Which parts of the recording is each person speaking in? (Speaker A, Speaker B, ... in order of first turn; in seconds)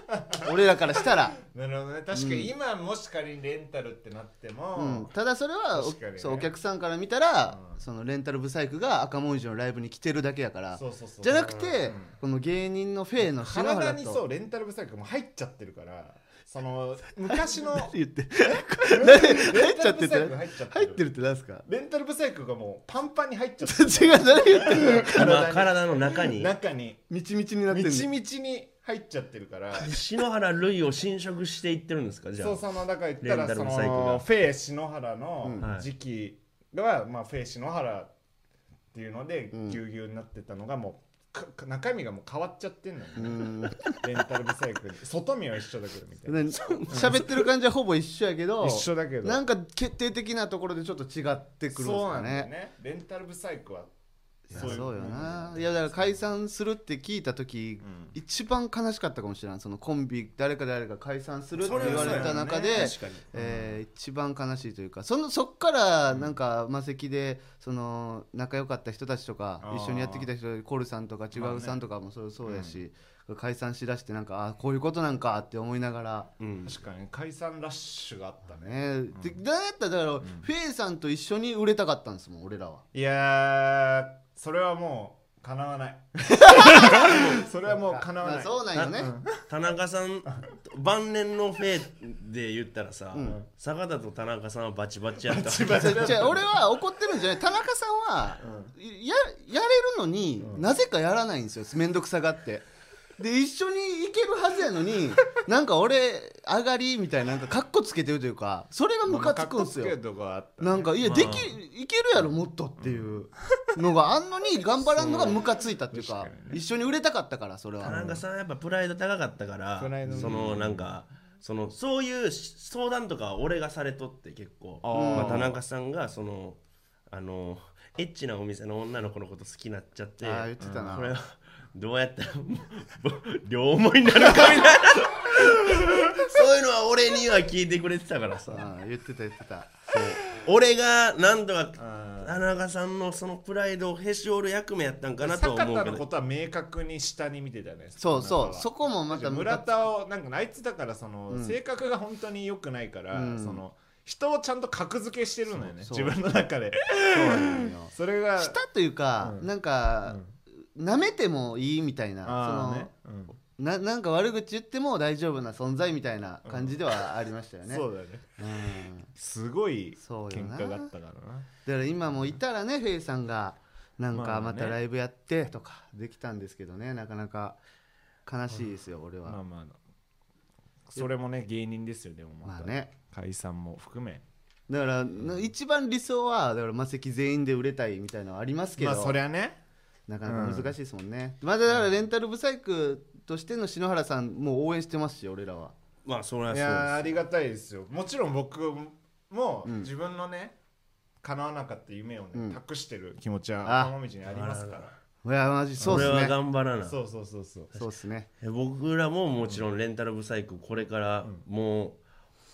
Speaker A: 0.1-0.5, 1.4-5.1, 5.7-6.5, 7.5-7.8, 10.8-12.1, 13.3-17.9, 18.5-21.1, 21.6-27.0, 27.7-29.9, 32.4-38.1, 38.9-47.3, 48.6-49.4, 51.7-53.9, 54.5-56.1, 57.8-58.1, 61.6-63.8, 66.1-66.3, 69.6-70.3, 71.3-71.8, 72.4-72.8, 76.7-79.4, 80.2-80.5, 82.9-89.4, 95.3-96.5, 98.4-98.7, 100.4-100.7, 109.1-111.3, 112.8-113.2, 115.0-116.6, 117.8-118.2, 119.8-120.9, 124.8-125.6, 130.6-130.9, 141.8-142.4, 145.2-158.6, 159.2-159.5, 162.2-163.3, 166.4-166.8, 167.7-168.2, 169.2-171.5, 174.1-174.8, 179.2-179.8, 180.9-184.2, 188.8-189.6, 190.2-190.7, 196.5-200.6, 201.2-204.9, 205.8-206.1, 206.8-207.8
Speaker B: 0.3-1.4, 2.1-2.5, 4.8-14.2, 17.3-21.6, 23.6-25.4, 27.1-28.1, 39.5-39.8, 43.2-43.9, 46.3-52.5, 54.5-76.3, 78.6-82.8, 86.3-89.2, 93.1-93.4, 95.8-102.7, 103.2-110.0, 110.6-118.0, 120.1-120.4, 124.9-125.5, 130.2-131.2, 138.5-140.1, 148.0-149.8, 151.3-151.6, 153.1-153.6, 155.8-156.2, 157.1-160.2, 160.7-162.9, 163.6-167.8, 168.4-169.1, 170.0-170.9, 171.7-177.6, 178.3-179.4, 182.4-182.9, 184.7-189.2, 190.1-195.7, 202.3-202.6, 203.6-203.9, 205.2-206.3, 207.8-208.3
Speaker C: 25.1-26.5, 29.8-32.6, 33.2-34.2, 35.6-35.9, 46.5-47.4, 61.6-63.2, 76.4-76.7, 88.7-96.4, 111.0-111.5, 115.0-115.3, 117.8-126.6, 127.1-138.7, 139.9-146.0, 196.1-197.2, 204.3-205.0, 205.8-207.0, 208.4-212.0